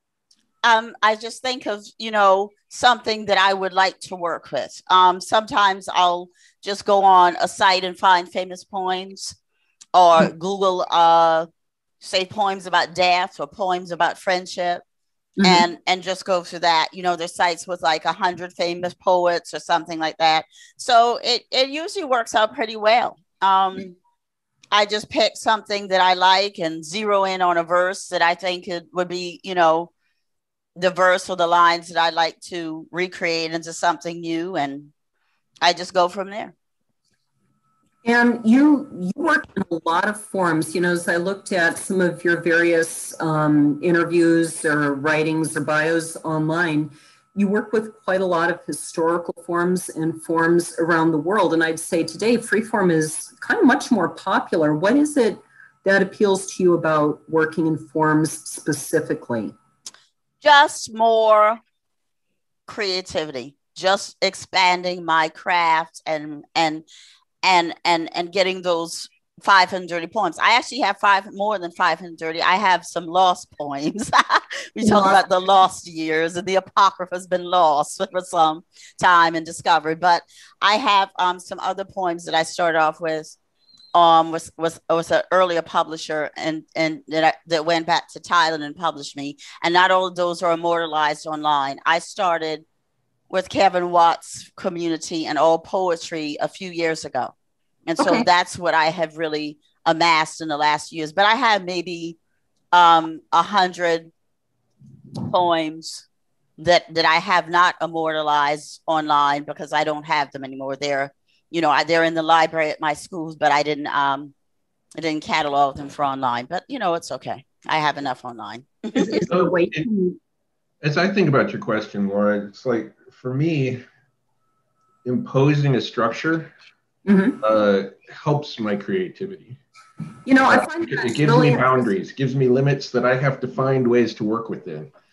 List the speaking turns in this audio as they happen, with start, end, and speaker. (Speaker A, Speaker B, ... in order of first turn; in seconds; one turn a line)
Speaker A: 0.6-9.3
Speaker A: 9.9-11.5
Speaker A: 12.0-14.8
Speaker B: 15.4-15.7
Speaker A: 15.4-24.0
Speaker A: 24.7-29.9
Speaker A: 30.8-34.9
Speaker A: 35.6-36.5
Speaker B: 38.0-59.5
Speaker A: 60.4-61.6
Speaker A: 62.7-66.8
Speaker A: 67.4-83.4
Speaker B: 74.8-75.2
Speaker A: 83.9-92.6
Speaker A: 93.3-97.3
Speaker A: 97.9-102.2
Speaker B: 98.0-98.3
Speaker A: 102.7-104.1
Speaker A: 105.2-106.0
Speaker A: 106.6-114.3
Speaker A: 115.0-119.2
Speaker B: 118.9-120.2
Speaker C: 119.3-119.9
Speaker C: 120.8-123.8
Speaker C: 125.0-126.5
Speaker B: 127.0-127.4
Speaker C: 127.4-129.6
Speaker B: 130.2-131.9
Speaker C: 130.5-134.9